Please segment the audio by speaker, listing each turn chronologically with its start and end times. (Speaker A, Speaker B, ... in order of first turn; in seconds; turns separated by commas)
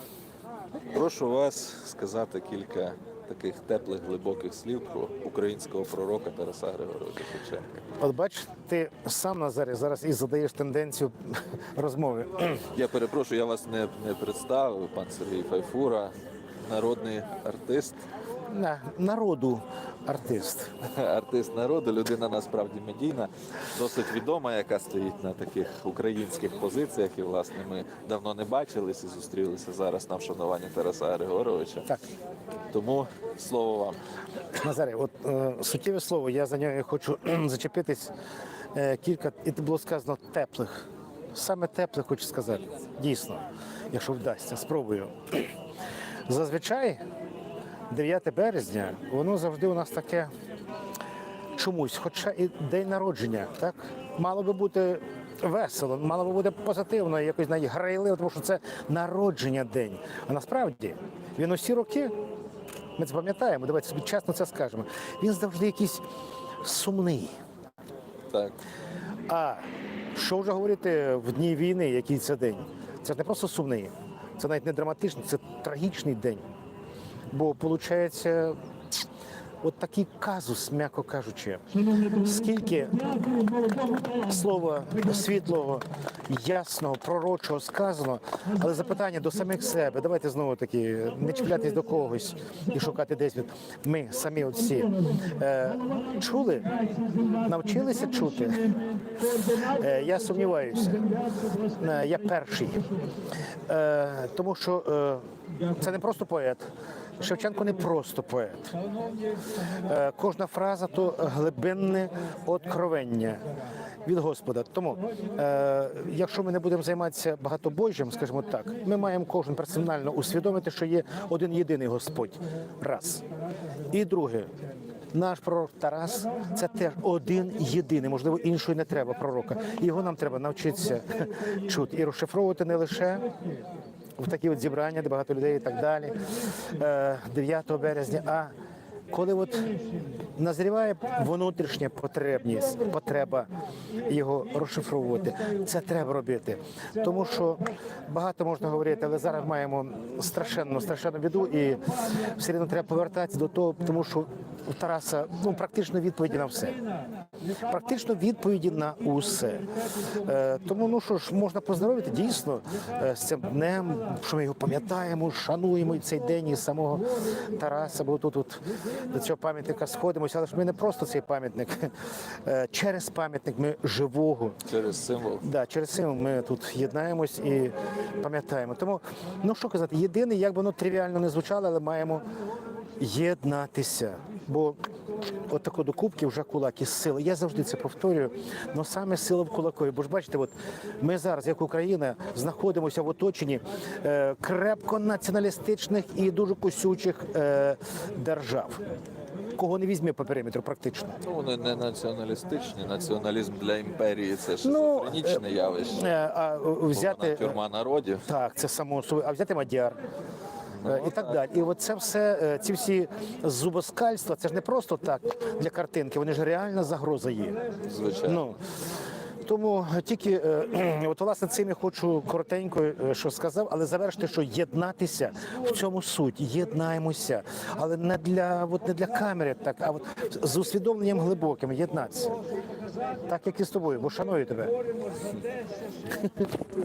Speaker A: 0.9-7.8, Speaker B: 8.0-12.7, Speaker A: 12.7-16.1, Speaker A: 16.6-18.0, Speaker B: 18.5-20.7, Speaker A: 20.9-31.9, Speaker A: 32.7-34.0, Speaker B: 34.5-38.1, Speaker B: 38.7-45.5, Speaker B: 46.3-47.0, Speaker B: 47.9-50.3, Speaker B: 51.5-62.1, Speaker B: 63.0-66.0, Speaker B: 66.6-67.3, Speaker A: 68.3-68.6, Speaker B: 69.3-69.6, Speaker B: 70.1-76.4, Speaker B: 77.3-78.6, Speaker B: 79.6-96.8, Speaker B: 97.4-98.7, Speaker B: 99.4-102.8, Speaker B: 103.7-106.7, Speaker B: 107.2-108.8, Speaker B: 109.8-113.4, Speaker B: 114.0-123.2, Speaker B: 123.9-124.5, Speaker B: 125.1-133.3, Speaker B: 134.2-138.5, Speaker B: 139.1-139.8, Speaker B: 140.4-143.5, Speaker B: 144.1-156.8, Speaker B: 157.6-159.7, Speaker B: 160.2-171.9, Speaker B: 172.4-174.6, Speaker A: 174.7-175.4, Speaker B: 175.4-182.2, Speaker B: 183.0-184.8, Speaker B: 185.5-198.8, Speaker B: 199.6-201.2, Speaker A: 201.2-206.1, Speaker B: 204.6-205.4, Speaker B: 205.9-207.6, Speaker A: 206.9-208.2, Speaker B: 208.2-210.0, Speaker A: 210.8-211.3, Speaker B: 210.8-217.6, Speaker A: 217.8-218.4, Speaker B: 218.2-218.6, Speaker B: 219.4-232.4, Speaker B: 233.2-234.7